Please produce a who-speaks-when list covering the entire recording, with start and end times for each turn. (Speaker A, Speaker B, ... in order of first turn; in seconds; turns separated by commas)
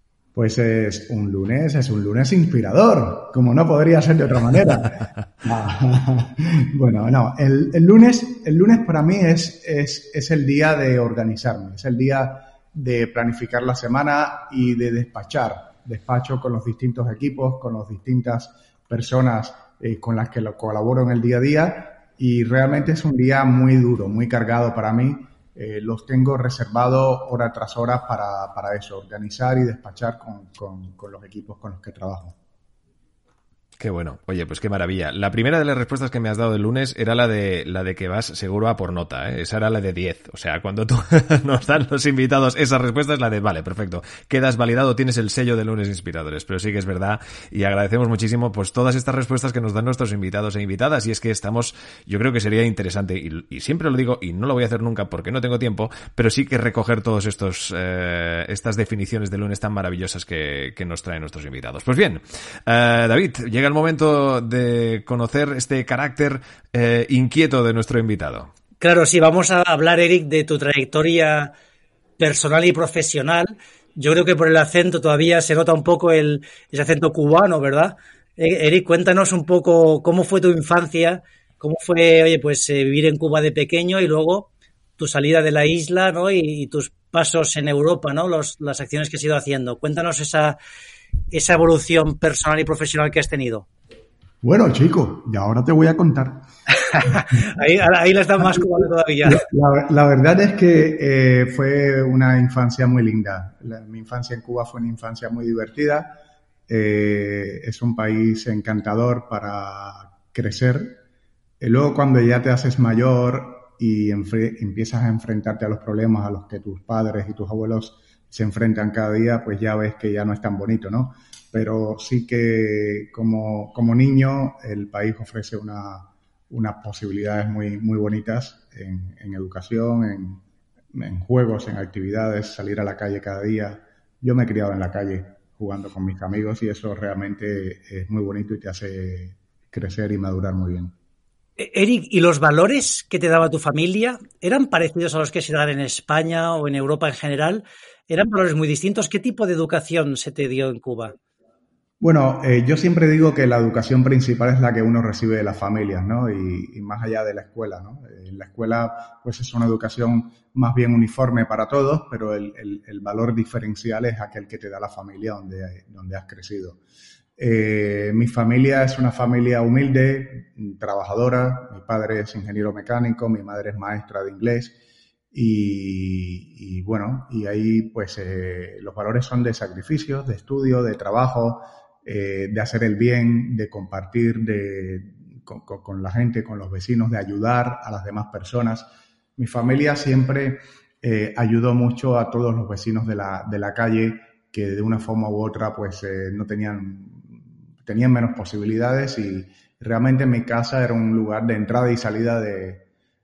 Speaker A: 0.3-32.4, Speaker B: 33.8-68.5, Speaker C: 68.8-71.5, Speaker C: 72.2-90.6, Speaker C: 91.3-93.7, Speaker A: 94.4-96.4, Speaker C: 96.8-99.5, Speaker A: 98.4-111.0, Speaker A: 111.6-130.4, Speaker A: 130.9-140.9, Speaker C: 141.6-151.2, Speaker A: 152.0-166.8, Speaker A: 167.4-174.8, Speaker A: 175.3-202.8